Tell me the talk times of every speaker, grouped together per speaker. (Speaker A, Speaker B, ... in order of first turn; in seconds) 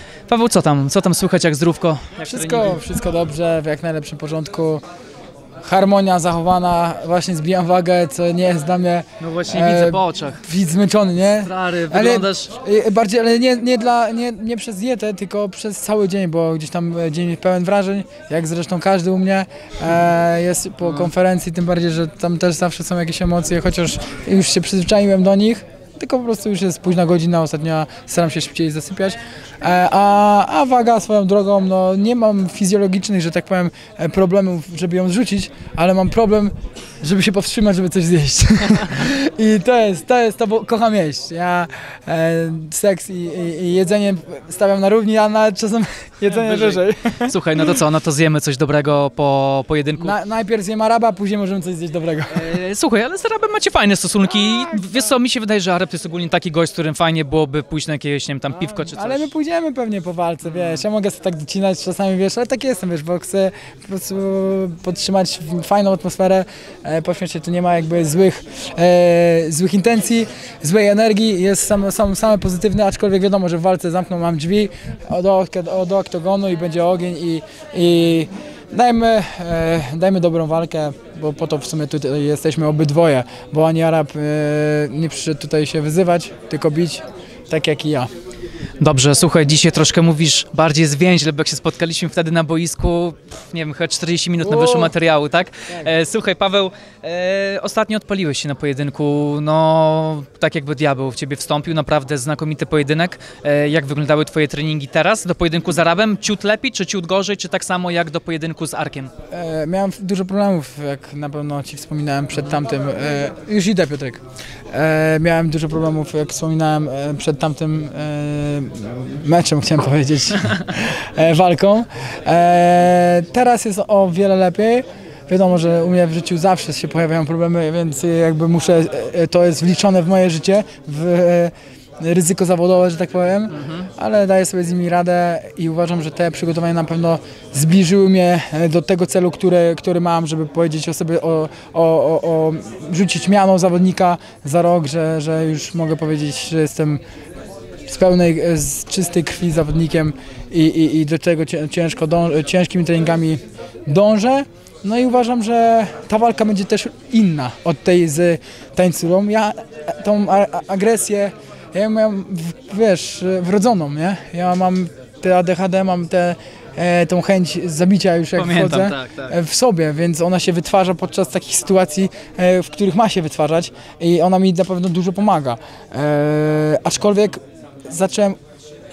Speaker A: 0.3-2.8, 9.2-10.4, 11.4-12.5, 46.3-50.1, 52.3-59.3, 60.5-60.8, 88.8-109.1, 168.4-169.3
Speaker B: 2.2-4.8, 5.7-47.8, 50.0-52.5, 54.4-55.1, 58.6-88.1, 94.4-94.9, 109.3-147.0, 147.9-178.4